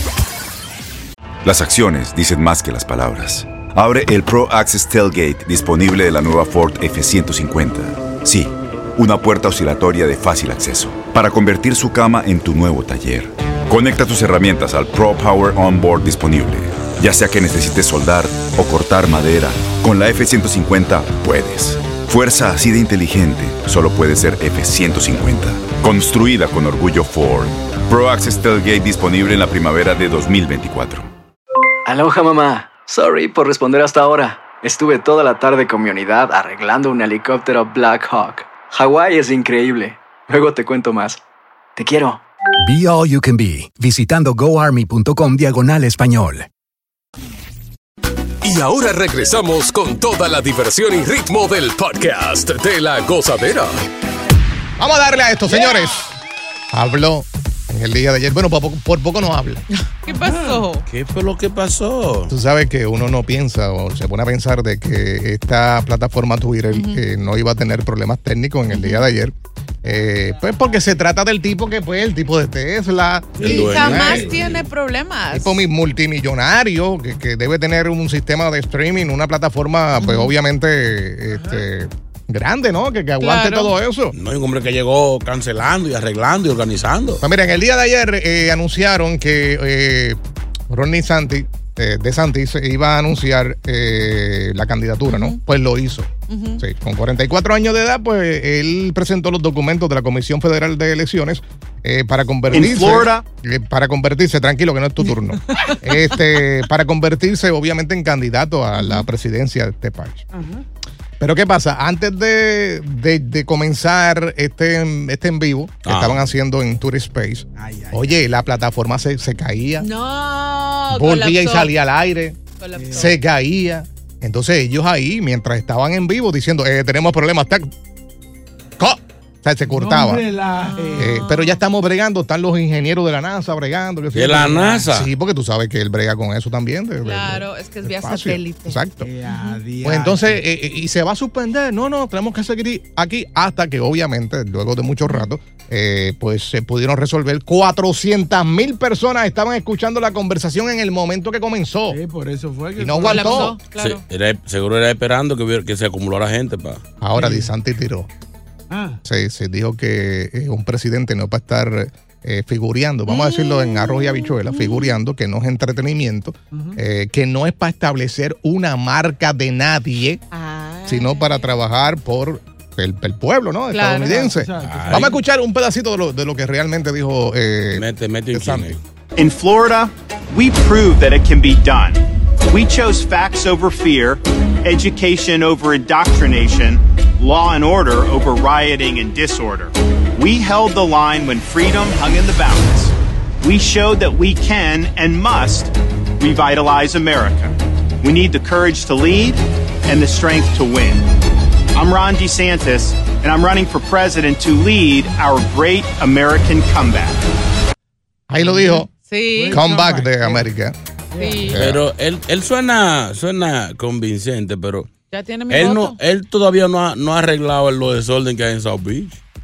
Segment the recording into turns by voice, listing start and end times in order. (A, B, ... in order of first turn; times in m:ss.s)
0:01.4-0:31.1 A
0:31.9-0:41.2 B
0:41.8-0:42.2 B
0:42.7-0:46.5 C
0:48.4-0:53.8 D
0:54.8-0:56.2 E
0:56.7-0:59.6 E
1:00.0-1:00.8 F
1:00.1-1:00.7 G
1:00.9-1:02.3 H
1:02.3-1:14.4 E
1:06.7-1:07.0 F
1:08.7-1:09.1 F
1:13.4-1:14.7 H
1:13.4-1:15.6 F
1:15.3-1:24.2 E
1:20.0-1:20.3 F
1:21.3-1:21.6 G
1:23.2-1:23.7 F
1:24.1-1:27.2 H
1:27.2-1:30.2 E
1:30.7-1:50.2 E
1:35.1-1:35.4 F
1:36.3-1:36.6 F
1:42.5-1:43.2 I
1:48.8-1:49.1 F
1:50.3-1:50.6 G
1:51.2-1:59.9 E
1:55.8-1:56.2 H
1:57.6-1:58.2 G
1:59.8-2:01.7 F
2:00.9-2:02.4 E
2:02.6-2:03.2 F
2:02.8-2:03.2 G
2:02.9-2:07.7 E
2:08.8-2:10.2 E
2:09.7-2:11.2 G
2:10.7-2:11.6 F
2:11.0-2:19.1 E
2:14.1-2:15.1 H
2:17.0-2:19.6 F
2:19.0-2:20.4 G
2:19.8-2:32.0 E
2:31.9-2:33.5 G
2:32.8-2:33.6 E
2:33.0-2:34.0 F
2:33.8-2:36.8 H
2:37.0-2:38.1 E
2:37.2-2:37.5 G
2:38.7-2:39.0 G
2:39.0-2:50.2 E
2:43.1-2:44.9 F
2:46.5-2:46.8 G
2:50.3-2:51.5 F
2:50.8-2:58.7 E
2:53.7-2:54.4 F
2:54.1-2:55.2 G
2:54.6-2:55.1 H
2:57.8-2:58.8 H
2:59.2-3:21.0 I
3:21.7-3:27.2 I
3:28.3-3:28.9 E
3:28.4-3:30.5 G
3:29.0-3:29.7 F
3:29.5-3:30.8 E
3:31.1-3:31.6 G
3:31.2-3:31.6 F
3:31.5-3:31.8 E
3:31.6-3:34.9 H
3:35.1-3:36.0 F
3:35.5-3:39.2 H